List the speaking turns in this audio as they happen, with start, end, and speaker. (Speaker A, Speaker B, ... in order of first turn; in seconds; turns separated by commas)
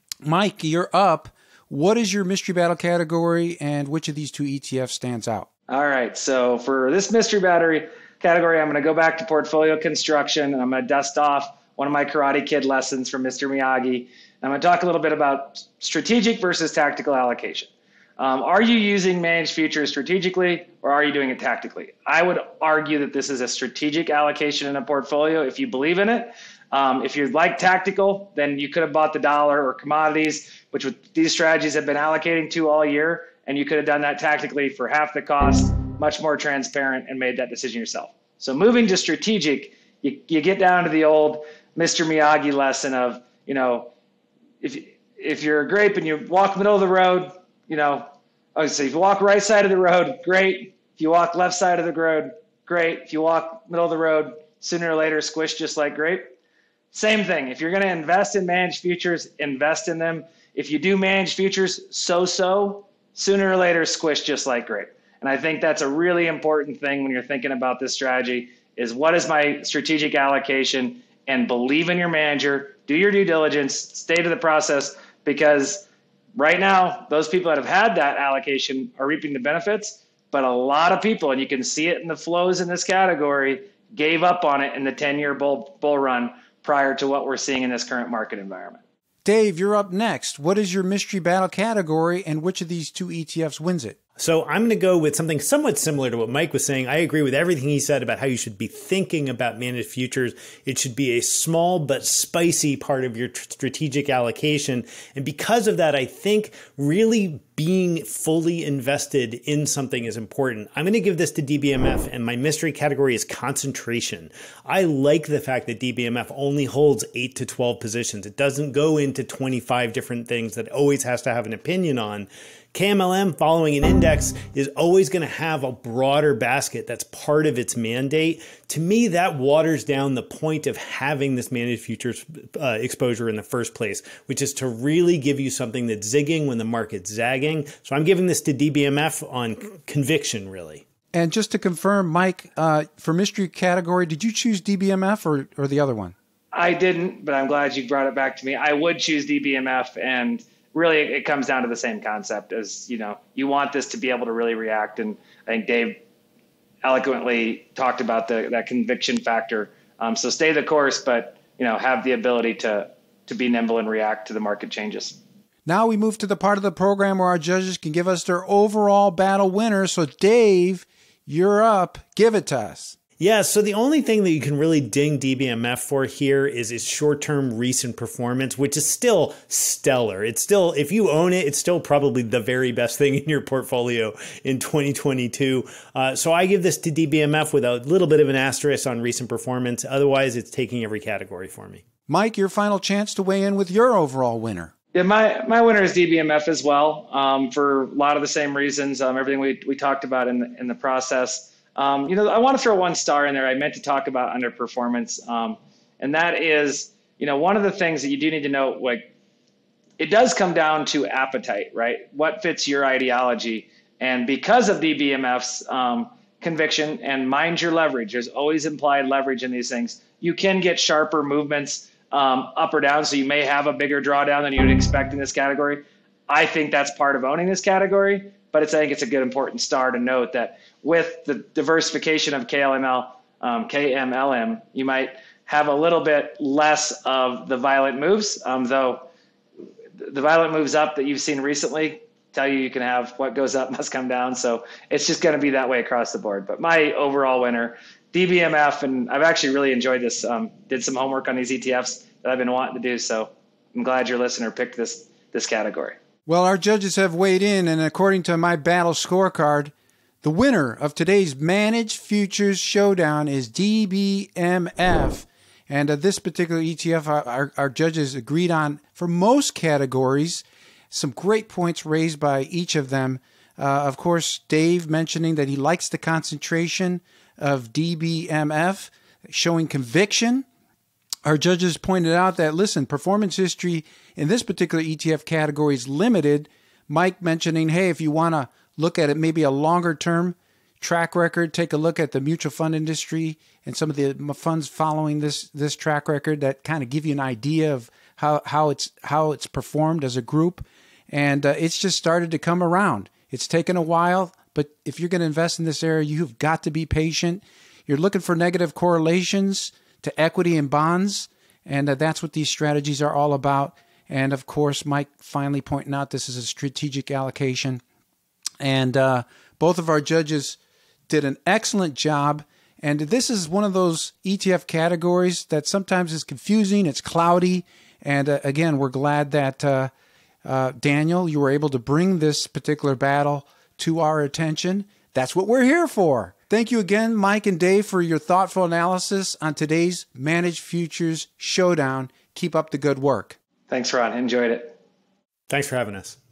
Speaker A: 0.2-5.5, Speaker B: 5.7-43.9, Speaker B: 44.6-56.3, Speaker B: 56.9-88.8, Speaker A: 89.2-94.0, Speaker C: 94.2-140.8, Speaker A: 141.1-146.1, Speaker B: 146.5-156.0, Speaker B: 156.8-165.2, Speaker A: 165.7-172.9, Speaker C: 173.2-191.8, Speaker A: 192.1-194.7, Speaker B: 194.9-209.1, Speaker B: 210.0-239.1, Speaker B: 240.0-255.9, Speaker A: 256.3-280.4, Speaker A: 281.2-317.8, Speaker A: 318.6-329.9, Speaker A: 330.4-343.4, Speaker B: 343.7-344.8, Speaker C: 345.5-346.2